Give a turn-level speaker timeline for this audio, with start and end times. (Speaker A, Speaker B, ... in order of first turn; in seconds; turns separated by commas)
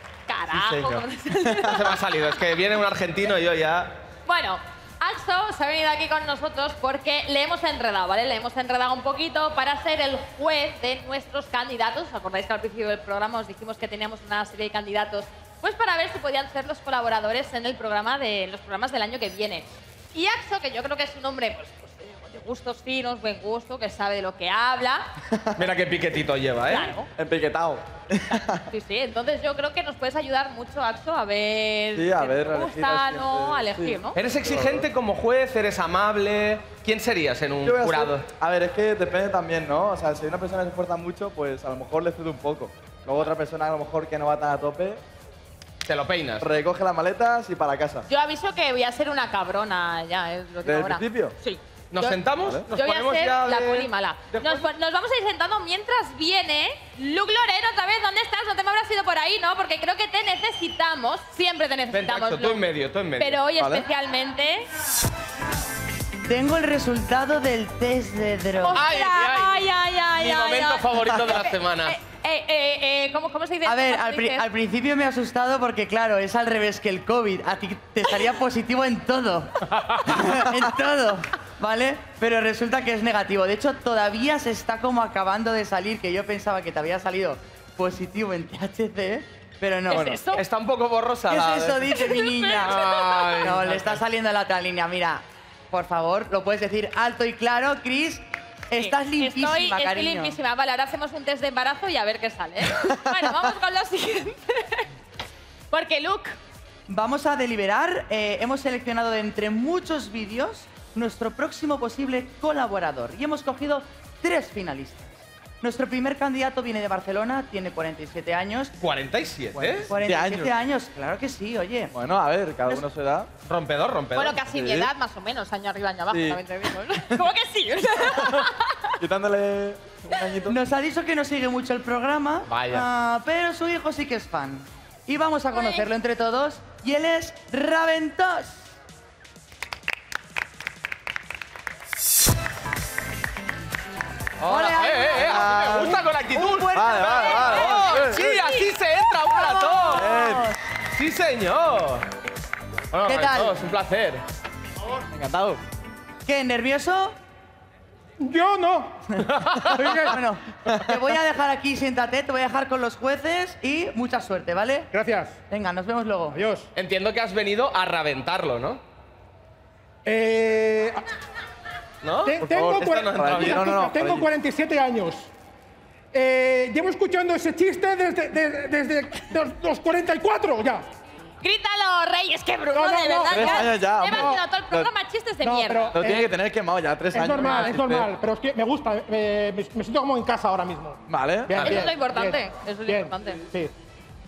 Speaker A: 0.3-2.0, Speaker B: 1.6-4.0, Speaker A: 4.3-25.1, Speaker C: 25.4-25.6, Speaker B: 25.6-26.9, Speaker A: 26.7-27.1, Speaker C: 27.2-28.6, Speaker A: 28.7-34.2, Speaker C: 31.9-34.9, Speaker B: 34.1-38.3, Speaker C: 37.6-45.0, Speaker B: 45.9-46.5, Speaker C: 46.4-48.1, Speaker A: 48.1-52.2, Speaker C: 50.6-51.4, Speaker B: 51.9-54.6, Speaker A: 52.7-62.6, Speaker B: 61.9-63.4, Speaker A: 63.2-64.7, Speaker C: 63.6-63.9, Speaker D: 66.2-68.8, Speaker A: 68.6-74.5, Speaker B: 68.7-72.0, Speaker D: 73.7-79.5, Speaker B: 79.8-80.3, Speaker D: 80.1-90.2, Speaker A: 89.9-90.5, Speaker B: 90.3-94.0, Speaker D: 91.3-100.4, Speaker A: 91.9-93.5, Speaker A: 98.8-104.9, Speaker A: 105.7-106.4, Speaker D: 106.9-118.7, Speaker B: 118.8-119.9, Speaker C: 119.5-120.5, Speaker D: 119.9-122.0, Speaker C: 121.9-123.3, Speaker B: 123.5-124.5, Speaker A: 124.2-128.7, Speaker C: 124.5-124.9, Speaker C: 126.1-126.4, Speaker C: 129.0-130.6, Speaker D: 130.5-138.6, Speaker B: 132.5-132.9, Speaker A: 135.5-135.8, Speaker B: 144.4-150.2, Speaker D: 144.4-147.8, Speaker C: 145.2-146.0, Speaker C: 146.7-148.2, Speaker A: 147.1-148.7, Speaker D: 149.3-150.5, Speaker C: 149.9-150.5, Speaker B: 150.9-152.1, Speaker B: 152.9-154.2, Speaker D: 153.1-153.6, Speaker C: 155.1-155.6, Speaker D: 156.3-157.2, Speaker E: 158.2-159.1, Speaker B: 159.3-159.8, Speaker D: 159.8-164.9, Speaker E: 159.8-160.1, Speaker E: 164.9-165.4, Speaker D: 165.5-166.4, Speaker E: 166.3-166.7, Speaker B: 166.8-168.8, Speaker E: 170.1-171.0, Speaker B: 172.0-173.7, Speaker E: 172.2-175.3, Speaker C: 172.4-174.3, Speaker E: 176.1-180.8, Speaker A: 181.4-185.9, Speaker E: 182.7-183.6, Speaker C: 183.3-184.9, Speaker E: 185.4-186.3, Speaker C: 185.9-188.1, Speaker E: 187.1-193.7, Speaker A: 187.3-187.8, Speaker C: 191.1-191.7, Speaker A: 191.6-193.4